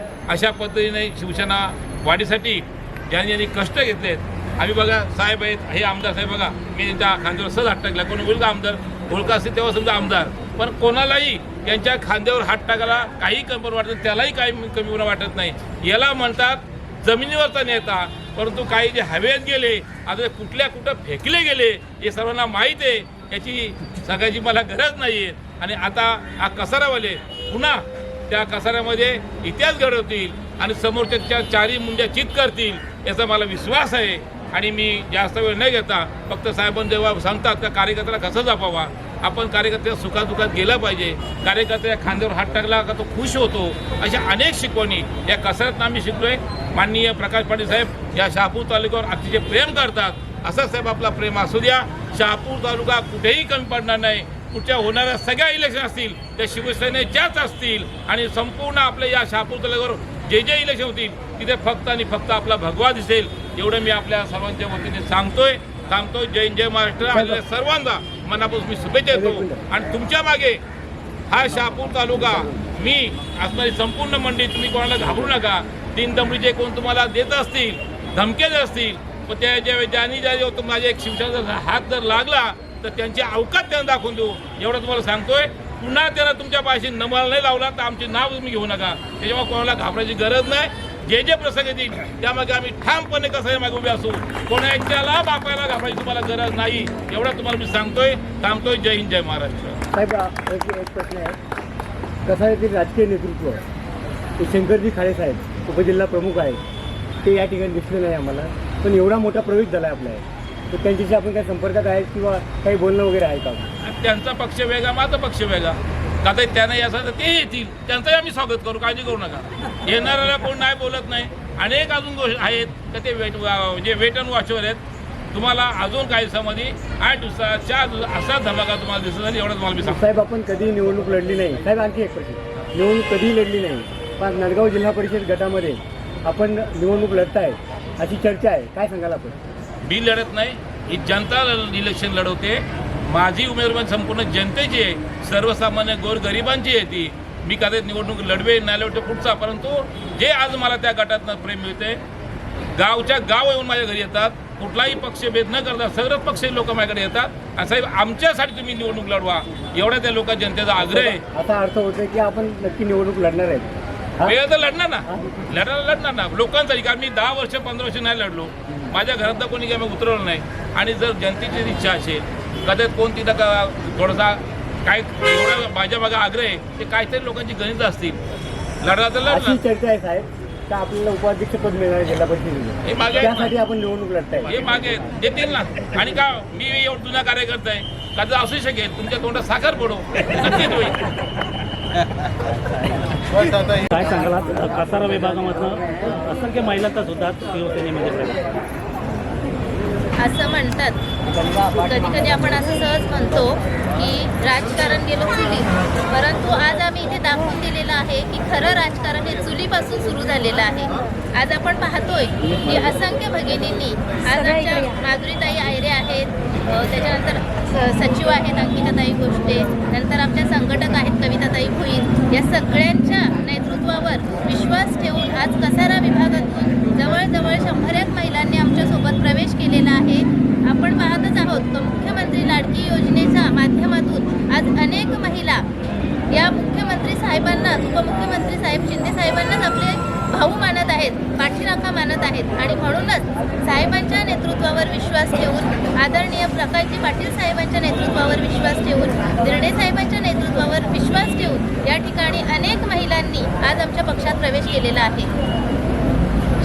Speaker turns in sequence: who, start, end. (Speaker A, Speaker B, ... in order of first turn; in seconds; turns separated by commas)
Speaker A: 0.3-70.6, Speaker B: 67.2-67.4, Speaker B: 69.1-69.7, Speaker A: 71.3-99.8, Speaker B: 99.9-101.4, Speaker B: 102.2-103.7, Speaker B: 104.4-106.6, Speaker B: 107.2-113.7, Speaker A: 113.8-124.8, Speaker A: 125.3-130.1, Speaker B: 129.8-139.4, Speaker A: 139.8-152.0, Speaker A: 152.8-161.2, Speaker B: 160.8-164.4, Speaker A: 164.2-178.2, Speaker A: 178.8-179.6, Speaker B: 179.3-185.0, Speaker A: 182.9-183.5, Speaker A: 184.5-191.0, Speaker C: 193.7-198.5, Speaker B: 194.0-194.5, Speaker D: 200.2-235.7, Speaker D: 236.3-255.3